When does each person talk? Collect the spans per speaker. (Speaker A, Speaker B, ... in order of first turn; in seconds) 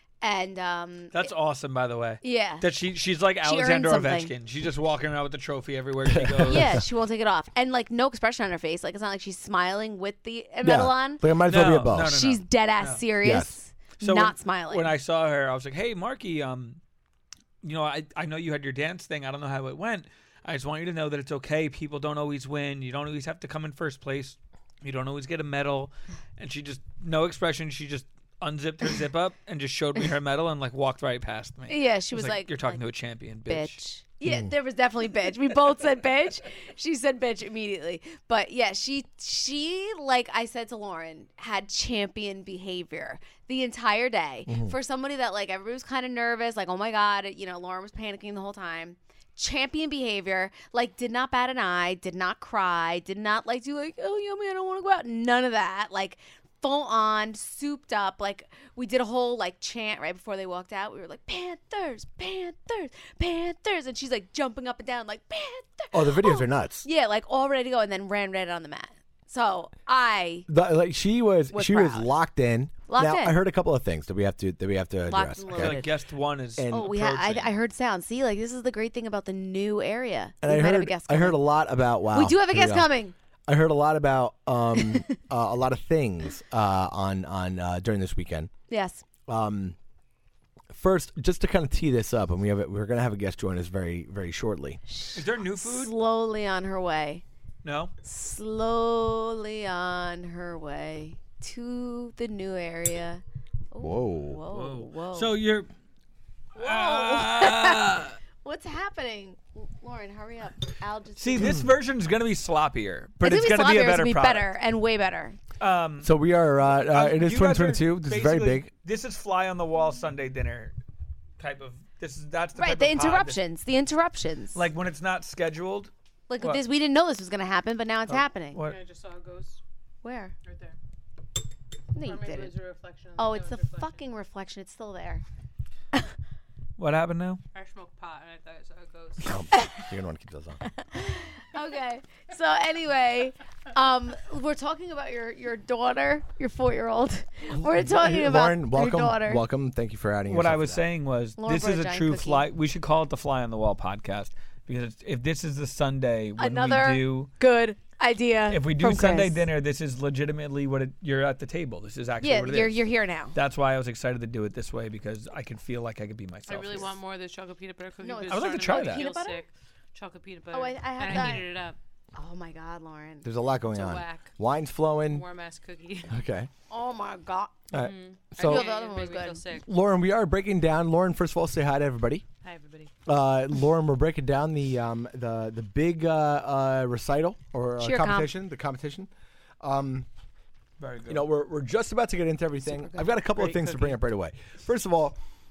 Speaker A: 0.2-1.3, 2.2-2.6, 3.4-4.3, 6.5-11.2, 12.1-14.9, 31.7-32.8, 33.5-70.5, 71.5-72.1, 72.9-73.4, 75.1-75.9, 76.7-81.4, 82.1-83.1, 88.7-89.0, 94.9-97.2, 98.0-105.3, 106.6-111.6, 113.2-115.4, 122.6-124.6, 126.3-128.6, 130.0-130.3, 131.9-132.6, 133.2-135.2, 139.5-139.8, 140.8-149.4, 151.4-152.4, 156.4-159.4, 162.2-163.3, 168.0-169.4, 170.5-171.5, 172.2-173.2, 176.7-177.6, 178.4-179.4, 187.8-188.3
Speaker B: 1.1-6.8, 11.5-13.0, 14.0-16.8, 17.6-33.8, 75.5-77.5, 95.1-95.9, 97.6-97.9, 104.5-105.7, 106.5-108.2, 111.2-114.5, 115.6-116.1, 116.8-120.7, 121.4-123.4, 124.5-126.6, 128.1-128.8, 136.8-137.4, 150.3-157.3, 158.5-166.9, 168.3-169.0, 190.8-191.3
Speaker C: 6.1-6.8, 10.6-12.1, 13.2-13.6, 34.2-34.5, 44.5-44.7, 65.9-66.9, 70.5-75.8, 76.6-76.9, 80.4-82.9, 83.5-88.5, 89.3-89.8, 90.7-94.8, 103.8-104.4, 111.4-111.7, 116.0-118.7, 139.2-140.6, 147.6-150.8, 173.2-175.2, 176.1-176.5, 177.7-178.6, 179.6-182.2, 183.1-189.1, 189.6-190.1, 191.1-195.2
Speaker D: 128.6-129.6, 130.4-130.8, 132.0-134.0, 137.5-139.4, 166.5-171.8, 173.7-174.3, 175.1-176.1, 177.7-179.7, 182.4-182.9